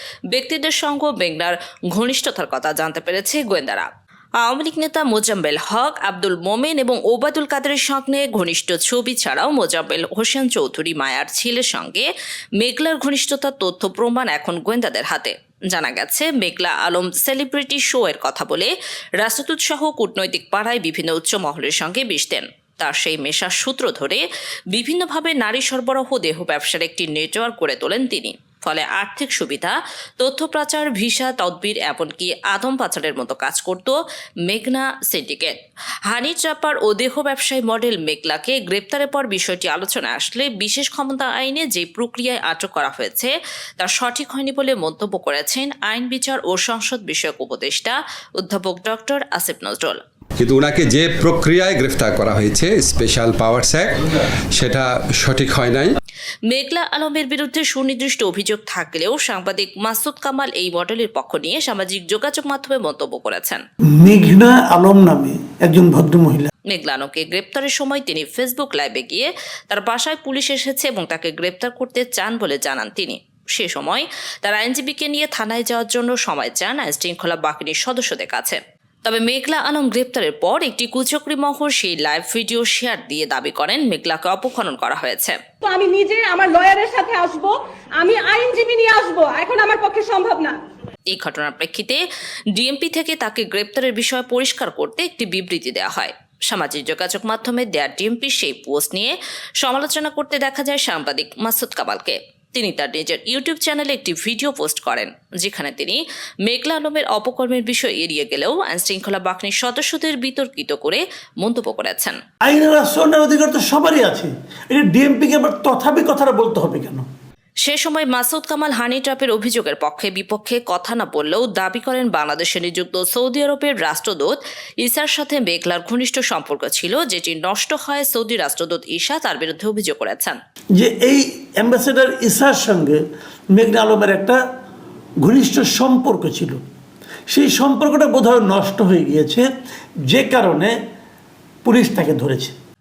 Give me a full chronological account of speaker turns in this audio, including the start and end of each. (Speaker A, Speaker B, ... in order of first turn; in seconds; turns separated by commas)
Speaker A: 0.3-3.9, Speaker A: 4.4-12.1, Speaker A: 12.6-34.0, Speaker A: 34.5-35.5, Speaker A: 36.1-50.0, Speaker B: 50.4-53.9, Speaker B: 54.5-55.9, Speaker A: 56.5-63.6, Speaker C: 64.0-66.5, Speaker A: 66.7-85.4, Speaker D: 85.6-90.6, Speaker A: 91.1-92.0, Speaker A: 92.5-112.2, Speaker C: 112.4-117.0, Speaker A: 117.6-130.4, Speaker C: 130.8-133.0, Speaker C: 133.5-134.4, Speaker C: 135.2-136.6, Speaker C: 137.3-139.5, Speaker C: 140.1-140.7, Speaker C: 141.6-142.5